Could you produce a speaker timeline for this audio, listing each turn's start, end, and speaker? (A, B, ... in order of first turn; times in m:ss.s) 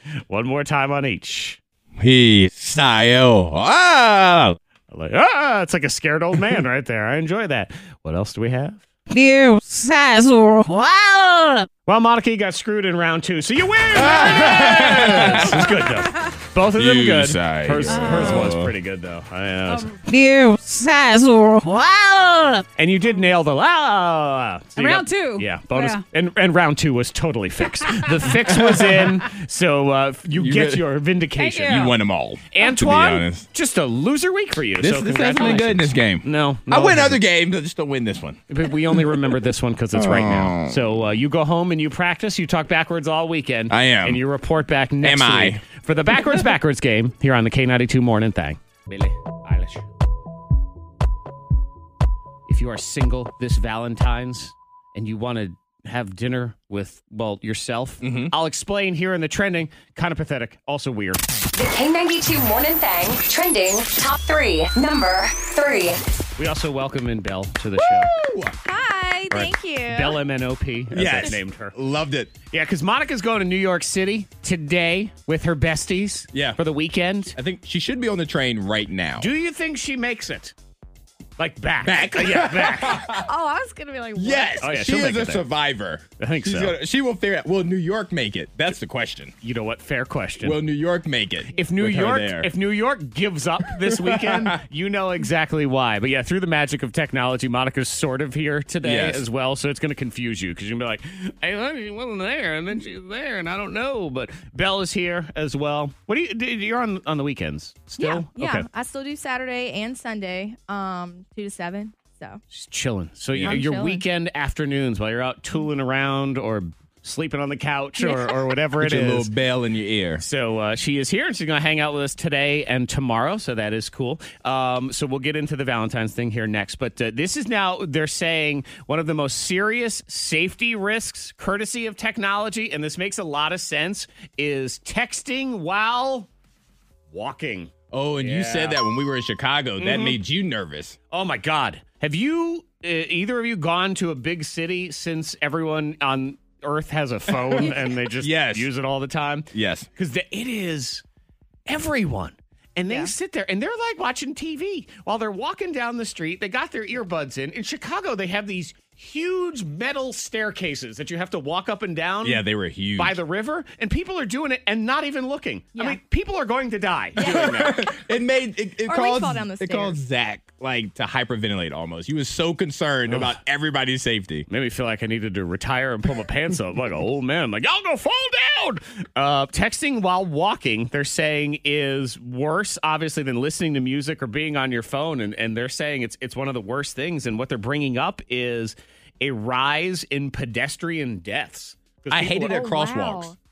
0:00.3-0:01.6 A
0:02.0-0:04.6 B
0:04.9-0:08.8 A
0:09.1-0:11.7 C
0:11.9-0:19.9 A
0:14.0-0:15.7 B
0:16.6-0:18.7 B
0:17.9-0:18.5 C
0:19.7-0:22.6 C
0:22.8-0:31.9 A
0:24.8-0:26.0 C
0:28.5-0:28.9 B
0:30.3-0:30.9 B
0:31.4-0:32.0 C
0:31.6-0:33.5 B
0:32.5-0:37.2 A
0:34.8-0:38.4 B
0:38.5-0:49.8 A
0:39.9-0:41.0 B
0:43.7-0:44.2 B
0:45.0-0:45.6 B
0:52.5-1:01.3 A
0:58.0-0:58.3 B
1:01.5-1:06.0 D
1:06.4-1:08.1 A
1:07.8-1:08.6 B
1:08.6-1:10.2 E
1:09.3-1:11.8 A
1:10.9-1:12.3 B
1:12.5-1:17.4 A
1:16.3-1:16.6 B
1:17.3-1:19.3 B
1:19.2-1:20.6 A
1:21.4-1:23.1 A
1:21.8-1:23.2 B
1:23.1-1:24.6 E
1:24.1-1:29.3 B
1:24.6-1:25.5 A
1:26.2-1:26.8 A
1:29.4-1:30.6 A
1:30.4-1:32.5 B
1:31.5-1:48.7 A
1:33.8-1:34.6 B
1:38.8-1:39.2 B
1:48.0-1:52.4 E
1:52.5-1:59.3 A
1:53.3-1:53.6 B
1:53.4-1:54.0 E
1:58.0-1:58.5 E
1:58.8-2:00.2 B
2:00.2-2:16.3 A
2:17.1-2:18.8 A
2:17.9-2:21.0 B
2:19.8-2:20.2 A
2:21.1-2:31.0 A
2:27.5-2:28.7 B
2:29.5-2:29.9 B
2:31.7-2:47.8 A
2:32.9-2:33.1 E
2:42.2-2:43.2 B
2:47.2-2:47.8 E
2:47.2-2:54.5 B
2:48.8-2:50.0 E
2:53.1-2:53.4 A
2:54.5-3:12.6 A
3:12.1-3:13.3 B
3:12.4-3:13.4 E